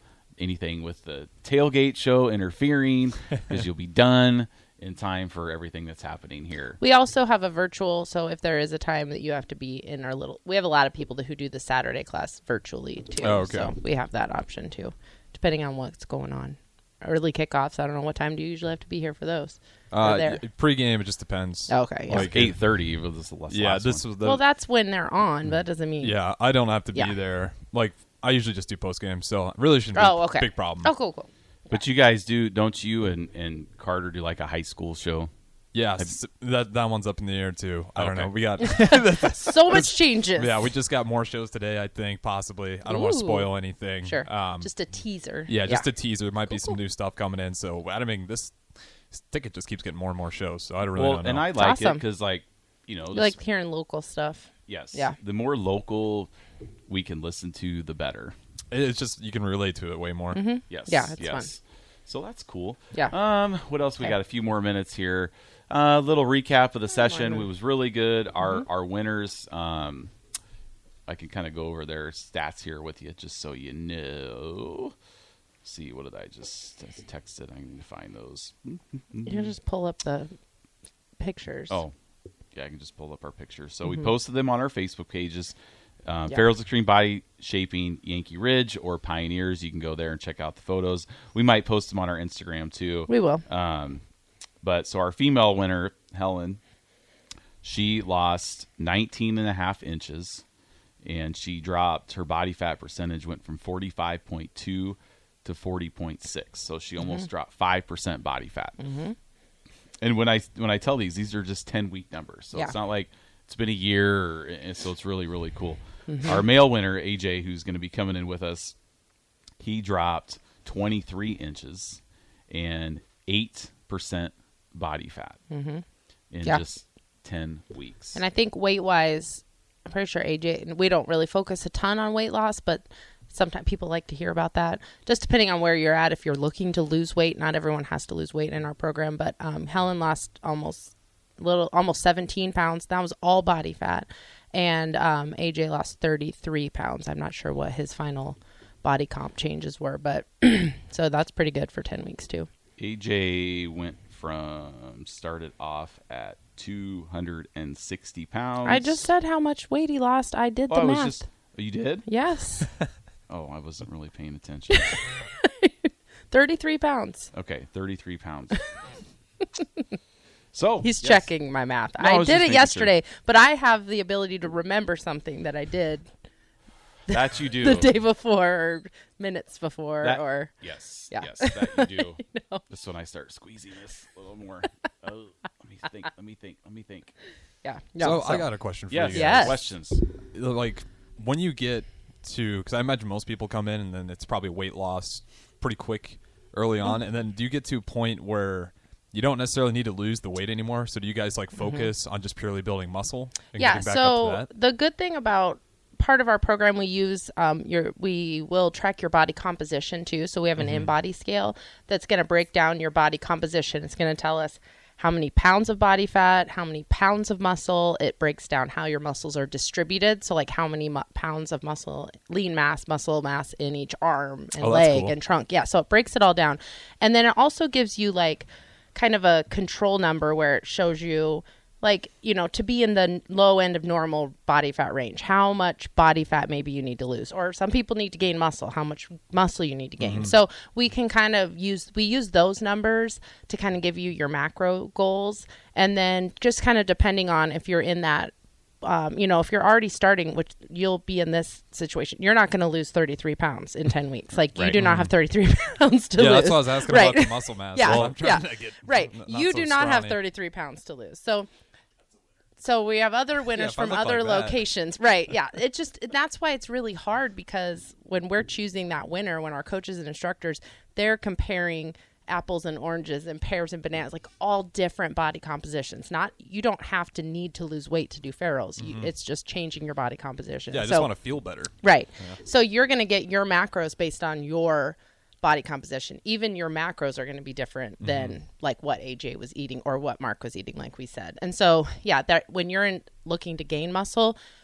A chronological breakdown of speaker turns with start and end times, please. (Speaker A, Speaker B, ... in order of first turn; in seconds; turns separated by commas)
Speaker A: 0.4-6.8, Speaker B: 6.8-20.4, Speaker C: 13.2-13.7, Speaker C: 19.9-22.6, Speaker B: 21.7-22.3, Speaker A: 22.1-24.0, Speaker C: 23.5-24.4, Speaker B: 24.2-26.2, Speaker C: 26.0-30.9, Speaker B: 29.9-31.8, Speaker A: 31.7-35.3, Speaker C: 35.7-44.7, Speaker A: 38.0-38.3, Speaker B: 38.6-40.6, Speaker B: 42.9-43.5, Speaker B: 44.0-45.9, Speaker C: 45.5-48.5, Speaker B: 46.5-46.8, Speaker C: 49.1-51.5, Speaker A: 50.9-53.4, Speaker B: 51.6-52.0, Speaker B: 53.1-55.1, Speaker A: 54.7-56.3, Speaker A: 56.9-58.3, Speaker C: 58.7-60.4, Speaker B: 60.3-61.5, Speaker A: 60.7-70.1, Speaker B: 67.1-67.4, Speaker A: 71.1-74.9, Speaker A: 75.6-79.5, Speaker B: 79.2-80.3, Speaker B: 81.2-81.8, Speaker A: 82.5-94.0, Speaker B: 93.1-93.4, Speaker A: 94.6-96.6, Speaker A: 97.6-100.4, Speaker A: 101.0-108.8, Speaker B: 108.8-109.2, Speaker A: 110.0-118.8, Speaker B: 116.1-116.4, Speaker A: 119.6-125.4, Speaker B: 125.5-125.8, Speaker A: 126.3-128.2, Speaker B: 128.1-152.5, Speaker A: 152.8-159.1, Speaker B: 158.6-161.2, Speaker A: 160.7-162.1, Speaker B: 162.1-162.7, Speaker A: 163.3-165.0, Speaker B: 164.7-167.3, Speaker A: 167.3-168.6, Speaker B: 169.4-169.8, Speaker A: 170.5-171.3, Speaker B: 170.8-176.1, Speaker A: 172.0-172.9, Speaker A: 177.1-177.9, Speaker B: 177.1-180.5, Speaker A: 180.0-187.1, Speaker B: 181.1-182.6, Speaker B: 187.6-189.6, Speaker C: 188.0-189.6, Speaker A: 188.9-190.0, Speaker C: 190.3-204.5, Speaker B: 203.6-261.5, Speaker C: 224.6-225.1, Speaker C: 240.0-240.3, Speaker C: 254.8-255.1, Speaker C: 256.2-260.2, Speaker A: 257.8-258.2, Speaker B: 262.6-281.1, Speaker C: 263.5-264.6, Speaker C: 278.8-279.1, Speaker C: 280.7-282.4, Speaker B: 281.8-294.4, Speaker C: 288.0-288.4